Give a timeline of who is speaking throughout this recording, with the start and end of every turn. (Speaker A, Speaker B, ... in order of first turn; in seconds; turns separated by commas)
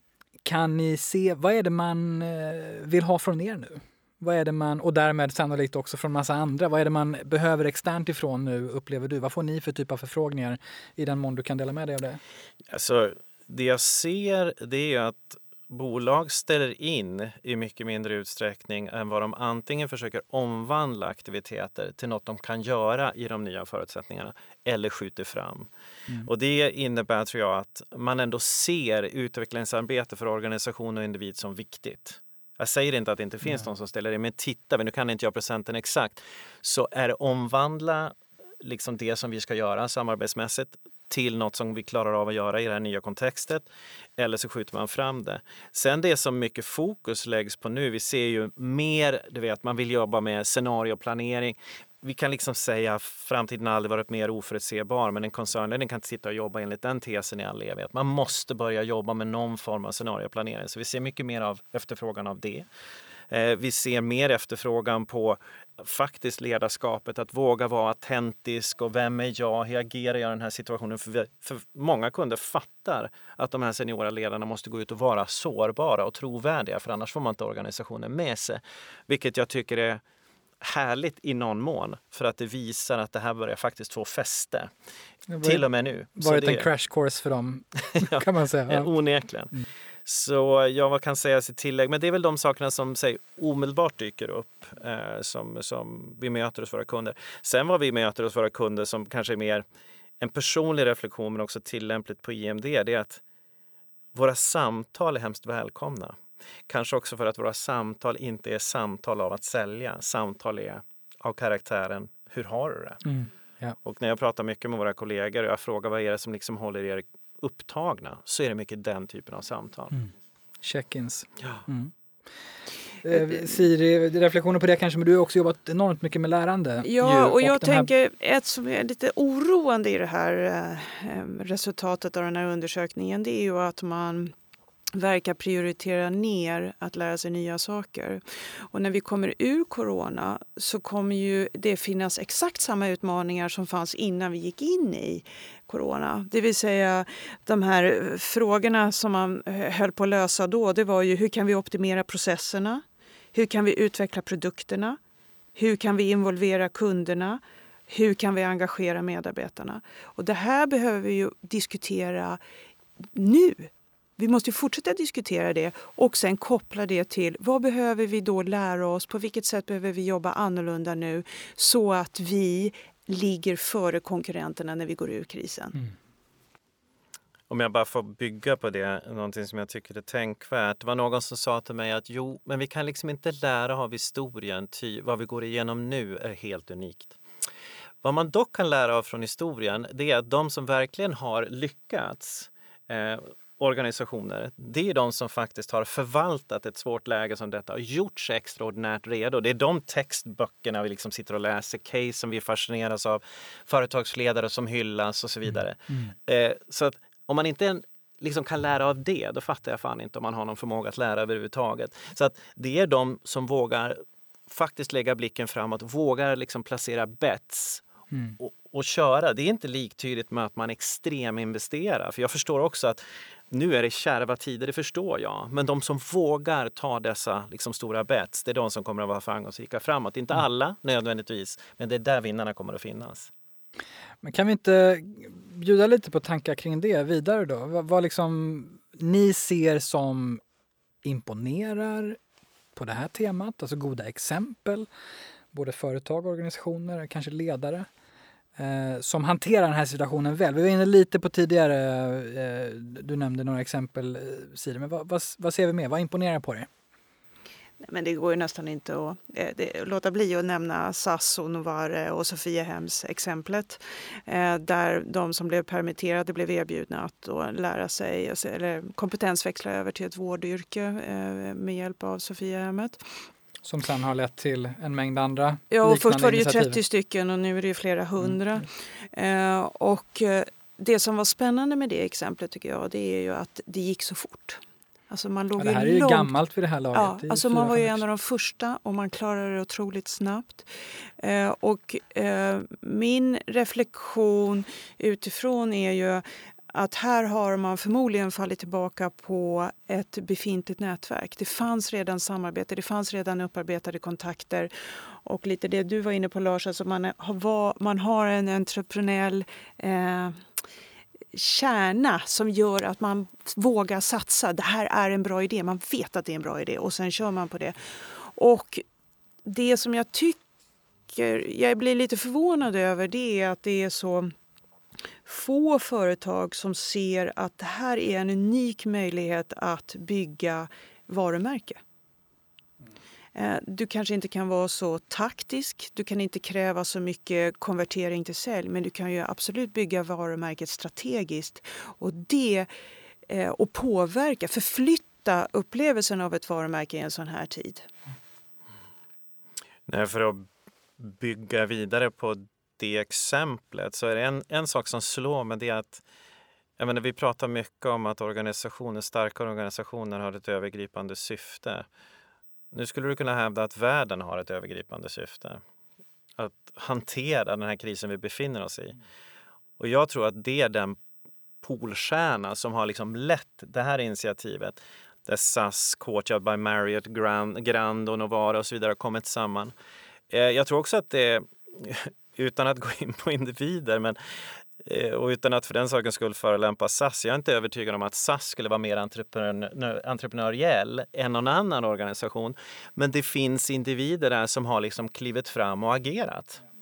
Speaker A: 0.5-12.2, Speaker B: 12.7-25.7, Speaker B: 26.2-62.7, Speaker B: 63.3-80.0, Speaker B: 80.6-84.7, Speaker A: 85.3-85.6, Speaker B: 85.4-86.7, Speaker A: 86.2-88.9, Speaker B: 87.9-89.5, Speaker B: 90.0-99.7, Speaker B: 100.2-103.2, Speaker B: 104.1-113.0, Speaker A: 113.0-113.8, Speaker B: 113.8-119.9, Speaker A: 120.6-121.9, Speaker A: 123.0-127.9, Speaker C: 126.8-134.3, Speaker C: 134.9-152.8, Speaker C: 153.3-155.0, Speaker C: 155.6-162.4, Speaker C: 163.2-175.8, Speaker B: 177.5-187.2, Speaker B: 188.0-217.8, Speaker B: 218.4-233.3, Speaker A: 234.2-240.4, Speaker A: 241.0-242.2, Speaker A: 242.8-244.9, Speaker A: 245.5-247.9, Speaker A: 248.6-256.7, Speaker C: 257.8-273.0, Speaker A: 273.6-276.8, Speaker C: 275.7-286.3, Speaker A: 285.6-288.0, Speaker C: 286.9-290.7, Speaker C: 291.2-304.7, Speaker C: 305.2-310.4, Speaker C: 311.3-318.8, Speaker C: 319.4-320.4, Speaker C: 321.1-324.3, Speaker C: 325.2-331.8, Speaker C: 333.4-342.7, Speaker C: 343.3-347.9, Speaker B: 349.9-356.0, Speaker B: 356.8-361.9, Speaker B: 362.7-365.6, Speaker B: 366.4-369.0, Speaker B: 369.8-371.0, Speaker B: 371.6-379.7, Speaker B: 380.3-396.6